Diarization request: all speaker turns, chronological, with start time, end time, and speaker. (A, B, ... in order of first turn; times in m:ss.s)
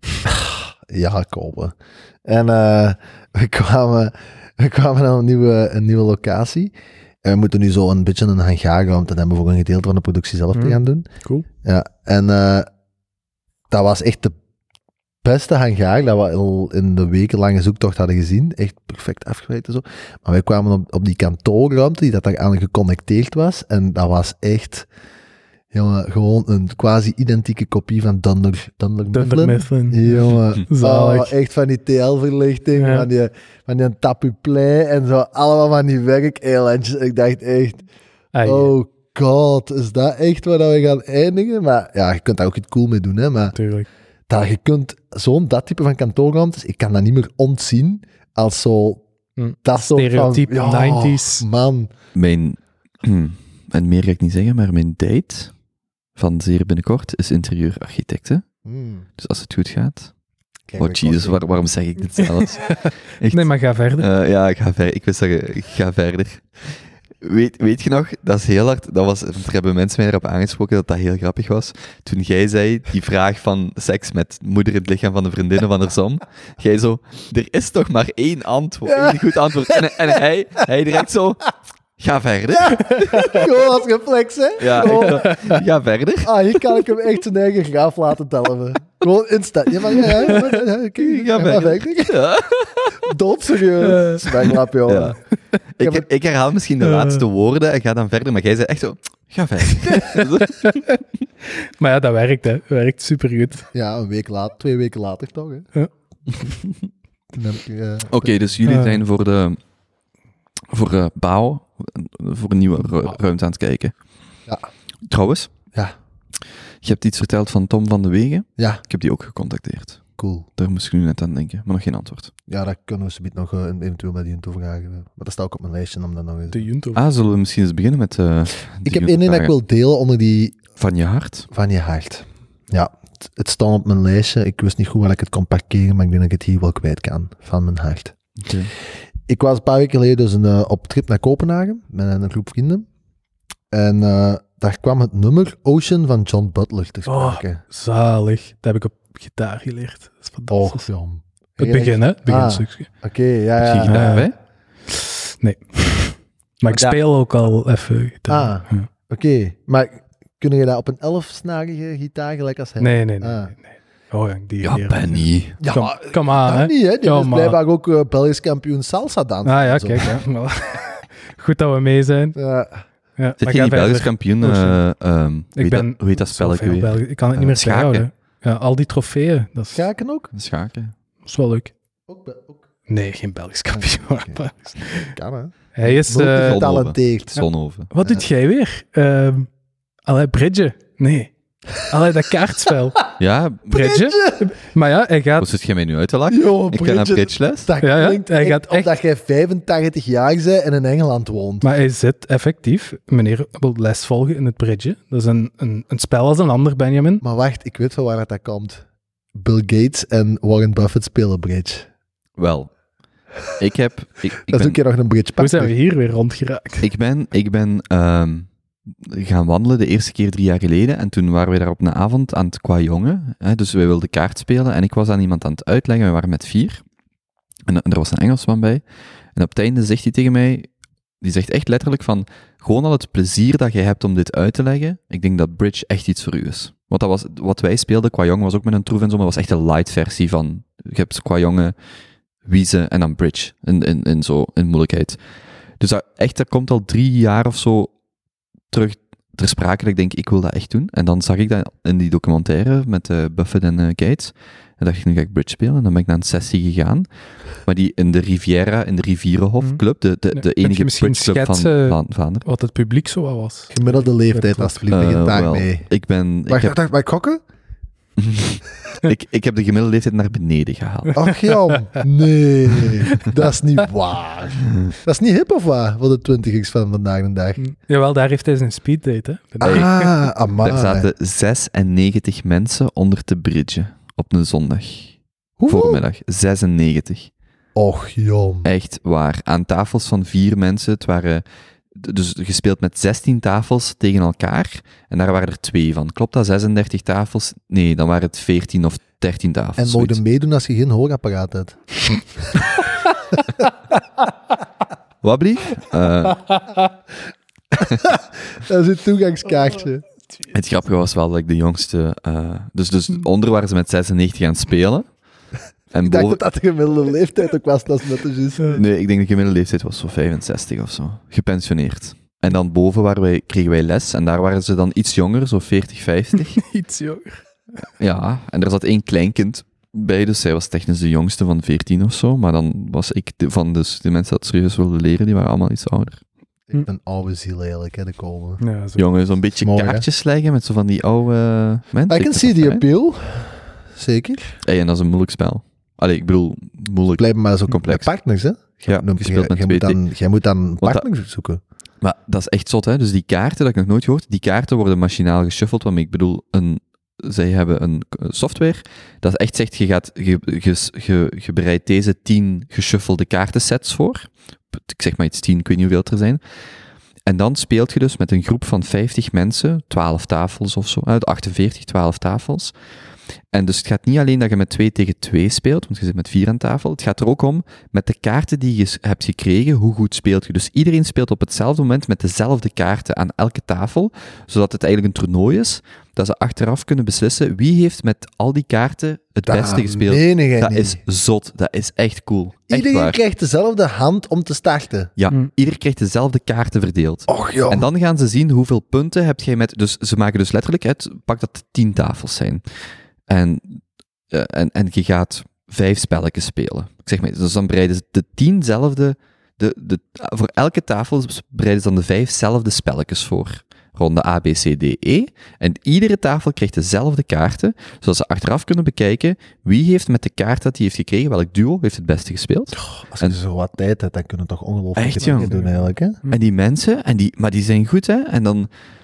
0:00.3-0:06.7 A
0:07.2-0:11.1 A
0:10.6-0:11.5 B
0:11.6-0:12.7 A
0:13.7-0:14.3 A
0:15.2-0:24.9 A
0:25.7-0:37.9 A
0:29.2-0:31.3 B
0:32.8-0:33.1 B
0:38.3-0:38.7 B
0:38.4-0:43.6 A
0:43.6-0:43.9 B
0:44.3-0:49.0 A
0:49.4-0:51.4 B
0:49.6-0:51.9 A
0:52.2-0:55.5 C
0:56.2-0:58.5 C
0:58.6-0:59.1 A
0:59.2-1:00.1 C
1:00.7-1:01.4 A
1:00.8-1:06.5 C
1:02.2-1:04.1 B
1:07.2-1:23.6 C
1:18.9-1:20.2 A
1:22.6-1:25.6 A
1:24.6-1:26.3 C
1:24.8-1:25.6 B
1:26.2-1:32.2 A
1:31.0-1:33.1 C
1:32.9-1:35.2 A
1:33.8-1:34.4 B
1:34.5-1:40.9 C
1:35.8-1:36.0 A
1:36.8-1:37.2 B
1:39.7-1:43.7 B
1:43.7-1:45.7 A
1:46.3-1:46.9 C
1:47.3-1:48.3 A
1:48.1-1:49.6 C
1:48.7-1:49.0 B
1:50.7-1:53.9 C
1:55.1-1:55.5 C
1:56.8-2:00.0 C
1:58.6-1:58.8 A
2:00.2-2:00.5 A
2:00.6-2:02.3 C
2:02.5-2:06.6 A
2:06.5-2:07.0 B
2:07.0-2:09.5 C
2:08.8-2:10.6 A
2:10.8-2:11.5 C
2:11.5-2:18.2 A
2:18.4-2:18.7 C
2:19.3-2:22.9 A
2:23.7-2:27.6 A
2:27.1-2:30.8 B
2:30.5-2:34.2 A
2:31.6-2:32.9 B
2:33.6-2:34.3 C
2:33.9-2:34.3 B
2:34.9-2:38.9 B
2:36.7-2:37.0 A
2:38.3-2:43.5 A
2:42.8-2:47.6 B
2:44.6-2:45.6 C
2:45.6-2:50.2 A
2:49.4-2:52.4 B
2:52.4-2:52.8 A
2:53.2-2:54.8 B
2:53.4-2:58.1 C
2:55.6-2:59.9 B
2:59.7-3:00.3 A
3:00.3-3:01.0 C
3:01.3-3:01.7 B
3:02.1-3:02.6 A
3:02.9-3:05.2 B
3:03.7-3:07.4 A
3:05.8-3:06.7 B
3:06.3-3:07.9 C
3:07.9-3:09.5 B
3:10.1-3:13.1 B
3:13.2-3:14.0 C
3:13.7-3:15.5 B
3:13.8-3:14.4 A
3:15.4-3:17.7 C
3:16.3-3:21.7 A
3:17.8-3:18.9 B
3:21.6-3:27.2 B
3:27.2-3:31.9 A
3:32.4-3:32.7 C
3:33.5-3:34.8 C
3:34.5-3:35.7 A
3:35.4-3:36.9 B
3:36.8-3:38.5 C
3:39.0-3:46.8 C
3:47.7-3:48.8 C
3:49.4-3:50.7 C
3:51.2-4:01.8 C
4:02.4-4:05.2 C
4:05.8-4:07.9 C
4:08.7-4:17.1 C
4:17.6-4:22.4 C
4:20.3-4:24.8 B
4:23.7-4:25.9 A
4:24.9-4:26.8 C
4:26.5-4:27.4 A
4:28.2-4:31.2 C
4:31.1-4:31.8 B
4:31.2-4:37.6 A
4:33.1-4:33.4 B
4:34.6-4:34.9 C
4:37.6-4:40.2 B
4:39.6-4:41.1 A
4:39.6-4:39.9 C
4:40.6-4:45.2 C
4:45.6-4:46.0 A
4:45.7-4:47.3 C
4:47.8-4:48.7 A
4:48.6-4:51.4 C
4:52.0-5:00.2 C
4:59.8-5:01.8 A
5:03.4-5:03.6 A
5:05.2-5:06.4 C
5:07.8-5:10.0 A
5:10.5-5:15.1 C
5:15.9-5:16.4 C
5:16.0-5:18.8 A
5:18.7-5:26.6 C
5:26.4-5:27.4 B
5:28.0-5:36.2 C
5:36.7-5:38.6 A
5:38.6-5:39.0 B
5:39.0-5:42.8 C
5:39.6-5:40.1 A
5:42.1-5:44.5 A
5:44.6-5:48.1 C
5:47.2-5:51.6 A
5:48.9-5:50.0 C
5:52.0-6:06.4 C
6:07.3-6:12.7 C
6:13.5-6:33.2 C
6:29.5-6:31.0 A
6:32.7-6:35.1 A
6:35.2-6:42.6 C
6:37.3-6:37.9 A
6:43.3-7:03.4 C
7:02.8-7:06.2 A
7:05.0-7:05.5 C
7:05.3-7:06.4 B
7:06.3-7:08.7 C